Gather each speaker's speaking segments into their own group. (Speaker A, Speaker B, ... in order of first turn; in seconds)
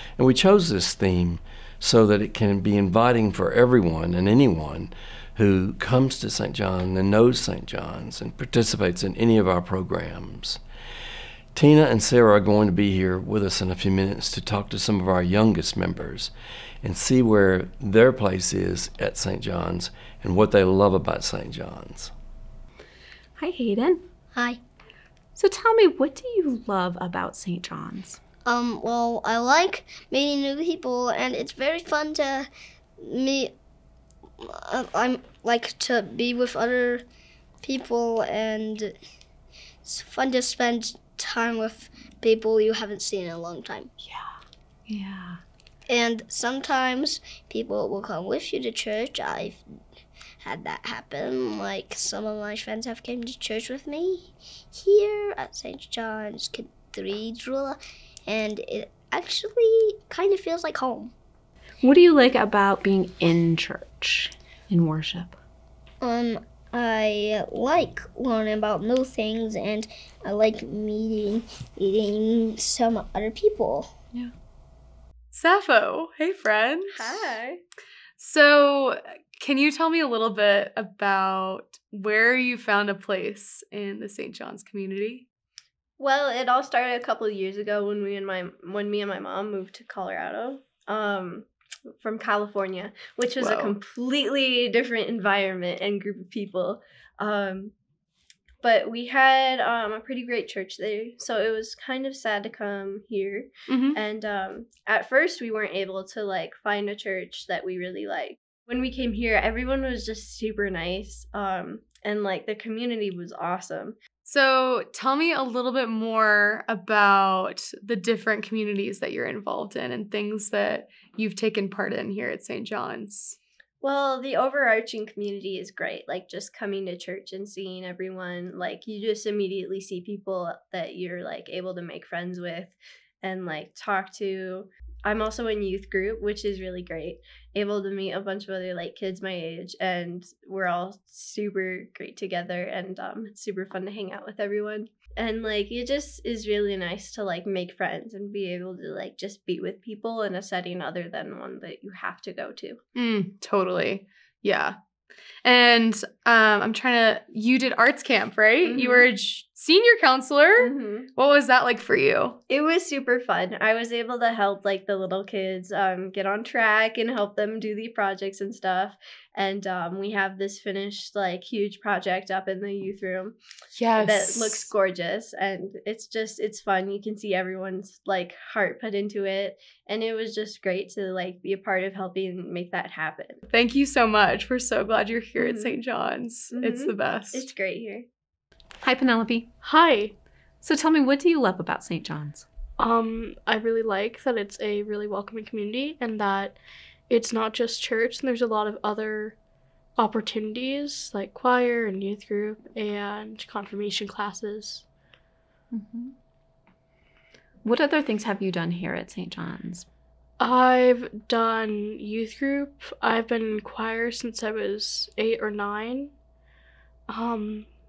Speaker A: 0.2-10.6, 11.6-16.3, 16.8-22.1
Speaker B: 23.4-24.0, 25.4-28.2, 44.9-45.4, 61.8-65.4, 188.8-189.5, 190.6-192.4, 205.7-206.1, 207.6-209.9
Speaker C: 24.3-24.6, 28.4-32.5, 33.0-33.5, 34.4-37.0, 37.6-39.0, 39.8-43.9, 45.9-49.6, 50.4-61.1, 66.0-73.9
Speaker D: 75.3-77.4, 78.2-85.2, 93.4-93.8, 103.7-104.0, 114.2-123.4, 152.9-154.8, 155.4-162.4, 173.8-174.7, 183.5-187.5
Speaker E: 76.9-77.6, 86.0-91.5, 92.0-97.7, 98.6-114.0, 123.8-152.8, 158.7-159.1, 160.6-161.1, 162.5-173.4, 174.0-183.4, 185.4-185.8, 186.5-188.1
Speaker F: 189.6-190.2, 192.8-196.6, 197.1-199.3, 200.0-204.8, 210.4-216.1, 217.1-217.7